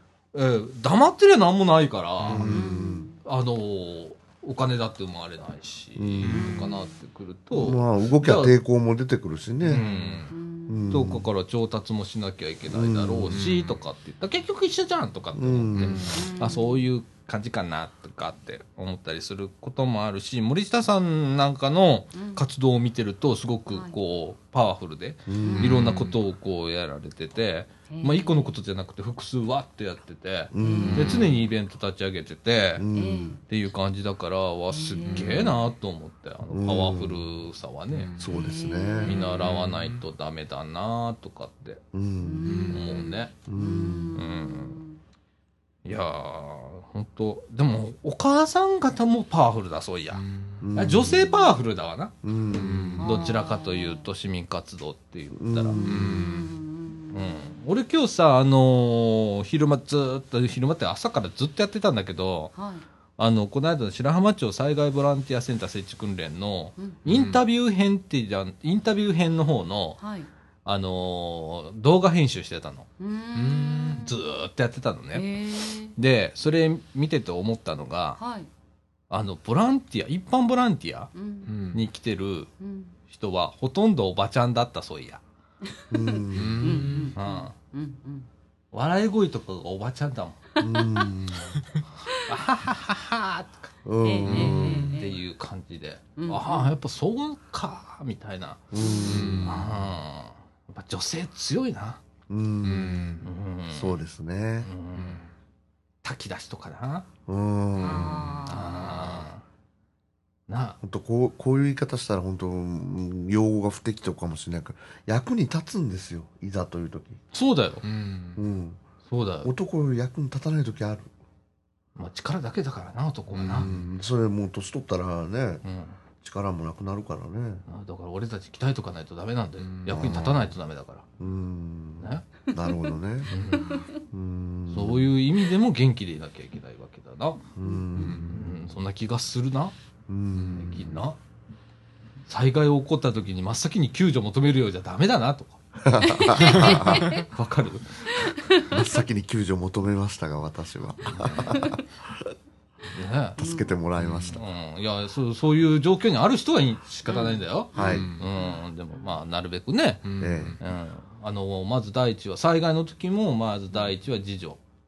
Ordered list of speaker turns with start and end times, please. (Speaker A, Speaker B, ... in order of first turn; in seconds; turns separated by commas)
Speaker A: 0.3-2.5, Speaker B: 2.2-2.6, Speaker C: 2.3-3.1, Speaker D: 2.5-3.2, Speaker A: 3.2-8.6, Speaker C: 6.0-6.6, Speaker B: 6.2-6.7, Speaker C: 7.5-9.9, Speaker A: 9.6-10.3, Speaker B: 9.6-10.1, Speaker D: 10.3-10.9, Speaker C: 10.7-11.3, Speaker A: 10.9-32.8, Speaker C: 12.7-13.6, Speaker B: 13.3-13.7, Speaker C: 15.4-16.2, Speaker B: 15.8-16.3, Speaker D: 16.1-16.8, Speaker D: 22.1-22.4, Speaker D: 23.7-23.9, Speaker C: 25.3-26.0, Speaker D: 25.4-26.0, Speaker D: 27.9-28.6, Speaker C: 30.5-31.3, Speaker D: 30.6-31.3, Speaker C: 32.8-33.4, Speaker D: 32.9-33.4, Speaker A: 33.5-38.1, Speaker D: 34.7-35.5, Speaker B: 35.1-35.5, Speaker C: 36.5-37.2, Speaker B: 37.9-38.3, Speaker C: 38.2-39.2, Speaker D: 38.3-39.2, Speaker B: 39.0-40.0, Speaker A: 39.0-41.8, Speaker C: 41.9-42.8, Speaker D: 42.2-45.0, Speaker B: 42.4-42.8, Speaker A: 42.7-43.3, Speaker C: 43.5-44.2, Speaker A: 44.1-44.8, Speaker A: 45.8-50.2, Speaker B: 50.1-50.7, Speaker C: 50.6-51.3, Speaker A: 50.7-52.1, Speaker C: 52.2-53.0, Speaker B: 52.5-53.2, Speaker D: 53.0-54.0, Speaker A: 53.0-55.8, Speaker C: 55.4-56.4, Speaker D: 55.8-57.5, Speaker B: 55.8-56.5, Speaker A: 57.1-62.5, Speaker D: 62.5-62.8, Speaker A: 63.2-70.0, Speaker B: 67.0-67.4, Speaker D: 70.0-70.3, Speaker A: 70.6-72.9, Speaker D: 73.0-74.2, Speaker B: 73.3-74.0, Speaker A: 73.9-75.2, Speaker D: 75.1-75.9, Speaker A: 75.9-78.2, Speaker D: 78.2-78.5, Speaker A: 79.1-81.1, Speaker D: 81.1-81.5, Speaker B: 81.5-81.8, Speaker A: 81.7-82.5, Speaker D: 82.6-83.0, Speaker A: 83.1-85.2, Speaker D: 85.6-88.3, Speaker C: 85.9-87.0, Speaker B: 86.3-87.1, Speaker A: 87.2-87.5, Speaker A: 88.7-90.4, Speaker D: 90.6-91.1, Speaker C: 90.6-91.5, Speaker A: 92.2-93.7, Speaker C: 93.8-94.9, Speaker D: 94.0-95.2, Speaker B: 94.3-95.0, Speaker A: 94.4-98.7, Speaker D: 96.2-96.7, Speaker C: 98.7-99.6, Speaker D: 98.8-99.4, Speaker B: 99.1-99.7, Speaker A: 99.4-102.0, Speaker C: 102.3-103.2, Speaker B: 102.6-103.3, Speaker A: 103.2-104.0, Speaker C: 103.7-104.7, Speaker A: 104.6-105.2, Speaker B: 105.0-105.3, Speaker A: 106.0-107.1, Speaker C: 107.3-108.5, Speaker B: 107.8-108.4, Speaker D: 107.8-109.0, Speaker A: 108.5-109.4, Speaker A: 110.5-110.8, Speaker C: 110.8-117.2, Speaker A: 117.3-117.8, Speaker B: 117.8-118.4, Speaker C: 118.4-118.8, Speaker A: 119.1-119.5, Speaker C: 119.4-121.1, Speaker A: 122.0-123.7, Speaker B: 123.3-123.9, Speaker C: 123.6-125.6, Speaker A: 125.6-126.0, Speaker C: 126.2-127.6, Speaker A: 127.7-131.0, Speaker B: 129.6-130.1, Speaker C: 129.9-130.5, Speaker C: 131.2-133.3, Speaker A: 132.0-132.3, Speaker D: 132.5-132.9, Speaker A: 133.3-133.8, Speaker D: 133.5-133.9, Speaker C: 134.1-135.1, Speaker A: 134.7-137.4, Speaker C: 137.6-138.4, Speaker B: 138.0-138.4, Speaker A: 138.3-139.7, Speaker C: 140.1-141.0, Speaker B: 140.4-140.7, Speaker A: 140.6-141.2, Speaker A: 142.3-145.6, Speaker C: 145.8-147.2, Speaker D: 146.0-147.2, Speaker A: 146.2-148.4, Speaker B: 146.5-147.2, Speaker D: 148.2-148.7, Speaker C: 148.6-152.3, Speaker A: 151.1-151.5, Speaker A: 152.9-153.4, Speaker D: 153.4-153.7, Speaker C: 153.4-154.4, Speaker B: 154.0-154.4, Speaker A: 154.3-160.1, Speaker D: 157.1-159.1, Speaker C: 157.7-158.1, Speaker B: 157.8-158.2, Speaker B: 160.0-160.6, Speaker C: 160.2-160.6, Speaker A: 160.6-164.6